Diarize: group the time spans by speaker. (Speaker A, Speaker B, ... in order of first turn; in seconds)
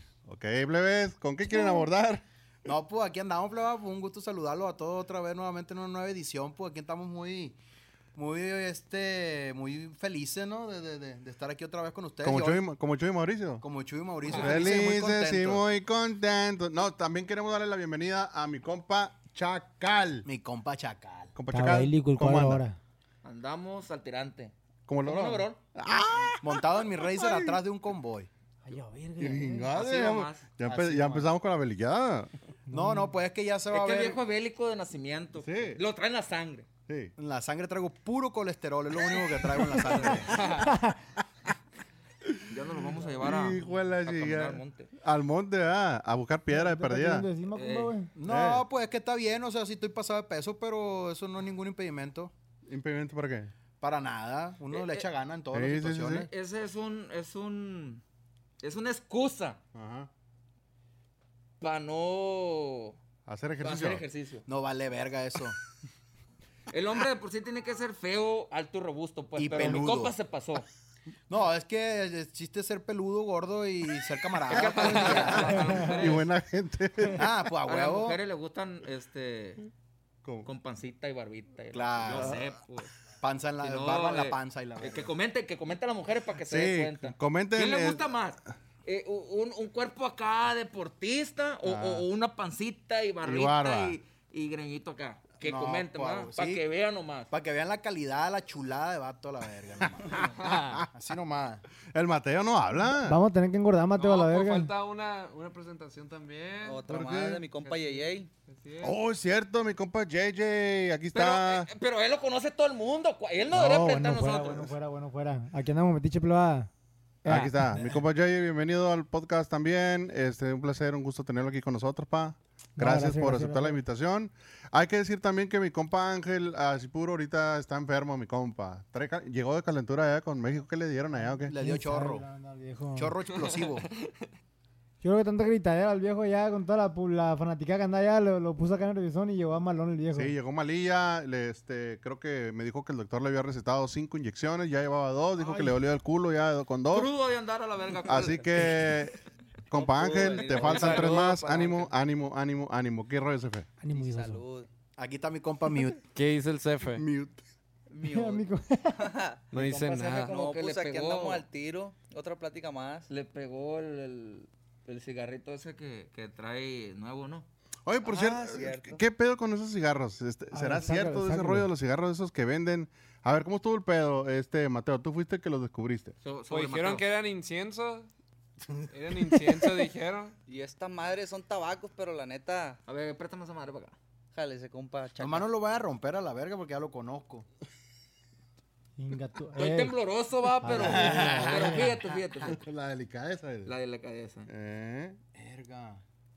Speaker A: 0.2-2.2, 12.2-13.6, 14.3-20.2, 21.3-22.6, 24.9-26.6, 27.3-27.5, 29.2-32.3, 35.4-35.8, 36.9-37.1, 43.0-47.3, 48.2-48.6, 52.6-53.5, 55.5-56.3, 59.7-60.1, 63.2-64.0, 75.5-77.3, 80.2-80.5, 82.1-82.4, 86.4-88.0, 91.6-92.0, 93.2-94.0, 100.4-100.9, 101.9-103.2, 106.9-107.5, 108.8-111.7, 117.2-131.6, 140.1-147.1, 148.1-153.7, 156.9-157.4, 167.8-176.2, 192.4-193.7, 194.5-195.2
Speaker B: 2.6-7.6, 8.1-12.6, 13.6-15.6, 20.2-21.3, 26.4-28.3, 32.7-34.2, 37.2-40.3, 48.1-52.3, 53.8-56.3, 64.5-65.6, 69.3-70.1, 71.3-75.9, 77.1-78.2, 81.7-82.4, 83.2-85.1, 95.4-96.6, 97.3-100.2, 100.9-101.6, 131.5-132.2, 132.9-133.9, 155.0-156.0, 185.2-187.4, 190.7-191.9, 195.3-196.0
Speaker C: 14.2-14.6, 23.2-25.6, 29.7-31.3, 33.7-36.7, 39.9-40.7, 42.5-44.9, 47.5-47.9, 54.7-55.1, 56.2-58.0, 58.6-59.6, 61.6-63.0, 63.6-64.5, 66.7-70.7, 74.5-76.3, 77.7-79.6, 80.4-82.9, 83.6-97.3, 111.1-114.8, 145.4-145.7, 146.9-149.0, 150.0-151.9, 159.5-161.4, 163.1-167.5, 176.2-177.0, 182.8-183.9, 189.6-192.6, 193.6-194.5
Speaker D: 21.5-22.8, 28.6-29.7, 32.7-33.1, 40.6-41.0, 46.5-48.1, 103.0-104.7, 113.5-116.7, 117.2-118.0, 122.8-123.8, 131.2-133.1, 135.0-140.3, 153.8-154.4, 158.0-159.1, 170.5-171.7, 189.0-189.9, 190.6-192.0
Speaker E: 100.4-100.8, 104.0-106.9, 107.5-109.0, 150.7-151.2, 156.1-157.0, 159.5-160.3, 176.5-178.1, 178.9-180.3
Speaker F: 106.6-108.3, 149.7-151.8, 153.9-154.7, 157.9-159.4, 160.3-163.1, 168.0-169.0, 180.5-182.8, 184.3-185.4